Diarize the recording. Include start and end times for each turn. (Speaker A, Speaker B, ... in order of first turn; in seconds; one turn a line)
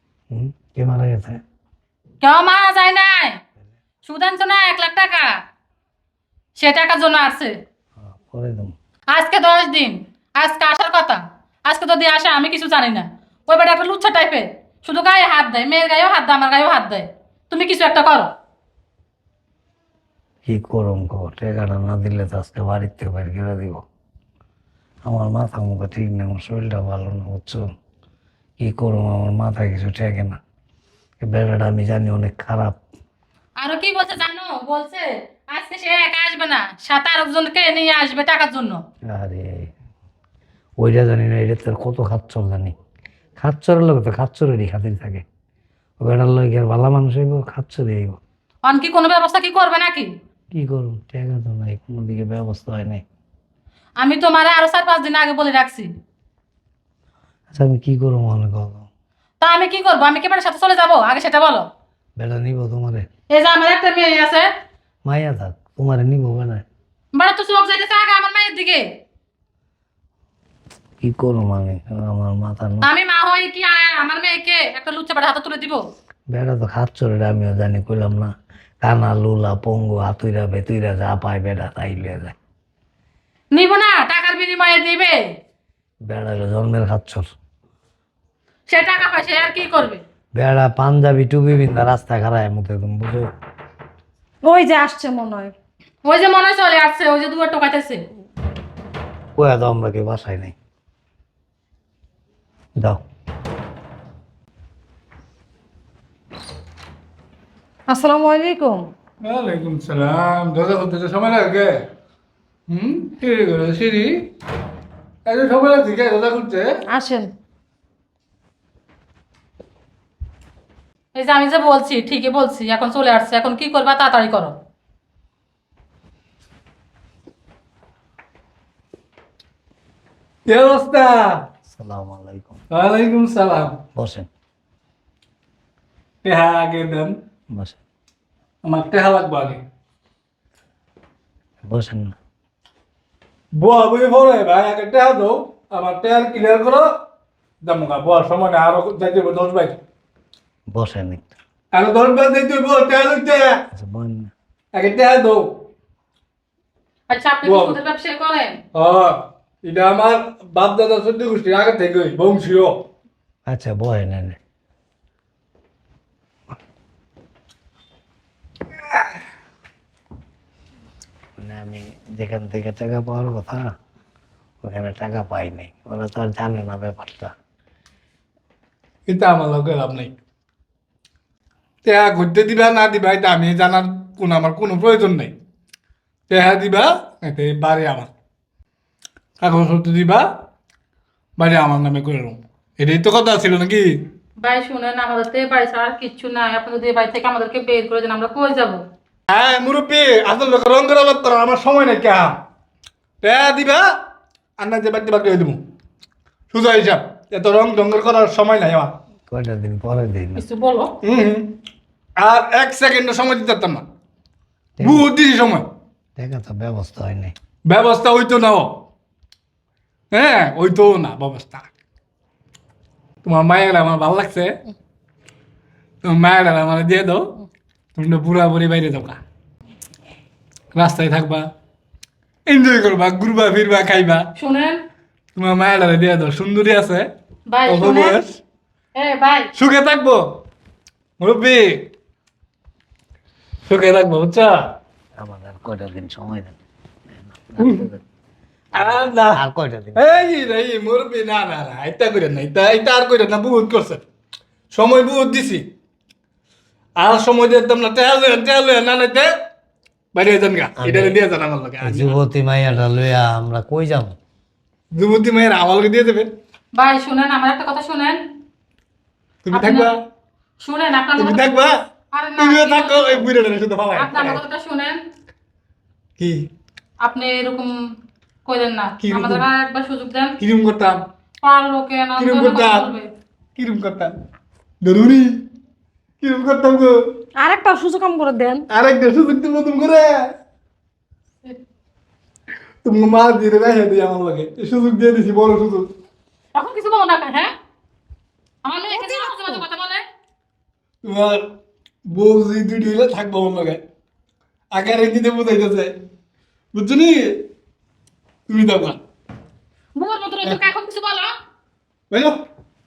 Speaker A: 0.3-1.4
Speaker B: 2.2-3.4
Speaker B: 4.0-5.3
Speaker B: 6.6-7.6
Speaker A: 8.0-8.7
Speaker B: 9.1-18.3
Speaker A: 20.5-23.8
Speaker A: 25.1-27.6
Speaker A: 28.6-30.4
Speaker A: 31.2-32.8
Speaker B: 33.6-38.8
Speaker A: 39.1-39.7
Speaker A: 40.8-42.7
Speaker A: 43.4-45.2
Speaker A: 46.0-48.2
Speaker B: 48.7-50.1
Speaker A: 50.5-53.0
Speaker B: 54.0-55.9
Speaker A: 57.5-58.9
Speaker B: 59.4-61.7
Speaker A: 62.2-63.1
Speaker B: 63.3-64.5
Speaker A: 65.0-66.6
Speaker B: 67.2-68.8
Speaker A: 71.0-72.9
Speaker B: 72.8-75.8
Speaker A: 76.3-78.3
Speaker A: 78.8-82.3
Speaker B: 83.5-85.2
Speaker A: 86.1-87.3
Speaker B: 88.7-90.0
Speaker A: 90.4-93.3
Speaker C: 94.4-95.5
Speaker B: 96.0-98.0
Speaker A: 99.4-100.5
Speaker C: 107.9-108.8
Speaker D: 109.2-111.8
Speaker D: 112.7-114.3
Speaker D: 115.3-116.7
Speaker C: 116.9-117.3
Speaker B: 121.2-124.6
Speaker D: 130.5-131.4
Speaker A: 131.7-132.6
Speaker D: 132.7-133.8
Speaker A: 133.9-134.3
Speaker D: 136.2-137.2
Speaker A: 137.5-137.8
Speaker D: 138.6-139.6
Speaker A: 141.7-142.2
Speaker D: 143.6-146.9
Speaker D: 147.6-149.8
Speaker A: 150.7-151.3
Speaker D: 151.7-153.7
Speaker A: 153.7-154.3
Speaker D: 154.7-155.7
Speaker B: 157.1-158.6
Speaker D: 157.4-157.8
Speaker D: 158.7-162.9
Speaker A: 163.5-164.4
Speaker A: 171.4-173.7
Speaker A: 174.6-177.3
Speaker D: 179.1-180.1
Speaker D: 181.8-185.3
Speaker D: 186.3-188.1
Speaker D: 189.4-190.3
Speaker D: 191.4-194.0
Speaker B: 194.4-198.8
Speaker D: 199.3-202.4
Speaker D: 203.2-203.9
Speaker D: 204.6-205.6
Speaker D: 206.5-208.9
Speaker A: 209.3-210.4
Speaker B: 210.4-210.9
Speaker D: 211.0-211.6
Speaker D: 212.2-213.8
Speaker A: 214.8-215.1
Speaker D: 214.8-215.7
Speaker A: 216.2-217.3
Speaker D: 217.7-218.8
Speaker D: 220.1-221.7
Speaker D: 223.2-224.6
Speaker D: 226.0-227.4
Speaker D: 227.9-229.2
Speaker D: 230.7-231.5
Speaker D: 232.5-234.3
Speaker B: 234.3-234.8
Speaker D: 235.3-237.1
Speaker B: 237.5-238.2
Speaker D: 237.7-238.4
Speaker B: 239.0-239.5
Speaker D: 239.6-240.4
Speaker D: 241.2-241.9
Speaker D: 243.7-244.7
Speaker A: 245.2-246.6
Speaker A: 247.1-248.0
Speaker D: 247.6-247.9
Speaker A: 248.7-250.4
Speaker D: 248.7-249.4
Speaker D: 250.0-254.0
Speaker D: 254.7-255.7
Speaker D: 257.0-259.3
Speaker D: 260.1-262.2
Speaker A: 260.8-261.2
Speaker A: 261.8-264.2
Speaker D: 264.9-266.3
Speaker B: 266.8-268.2
Speaker D: 269.5-270.0
Speaker B: 269.5-269.9
Speaker B: 270.6-271.4
Speaker D: 271.2-271.8
Speaker B: 272.1-273.3
Speaker D: 272.4-274.4
Speaker B: 273.9-275.0
Speaker D: 276.2-276.5
Speaker B: 277.0-277.7
Speaker B: 278.4-280.4
Speaker D: 279.0-279.4
Speaker D: 280.4-281.0
Speaker B: 281.4-283.1
Speaker D: 282.2-282.9
Speaker D: 283.6-284.1
Speaker D: 284.8-285.4
Speaker D: 286.2-287.0
Speaker C: 287.4-288.7
Speaker D: 288.7-290.3
Speaker D: 292.8-295.9
Speaker B: 296.6-297.5
Speaker B: 298.6-300.0
Speaker C: 298.9-299.6
Speaker D: 301.0-301.5
Speaker D: 302.1-303.8
Speaker D: 304.7-305.9
Speaker D: 306.7-307.5
Speaker D: 308.5-309.0
Speaker B: 310.0-311.3
Speaker D: 312.1-312.4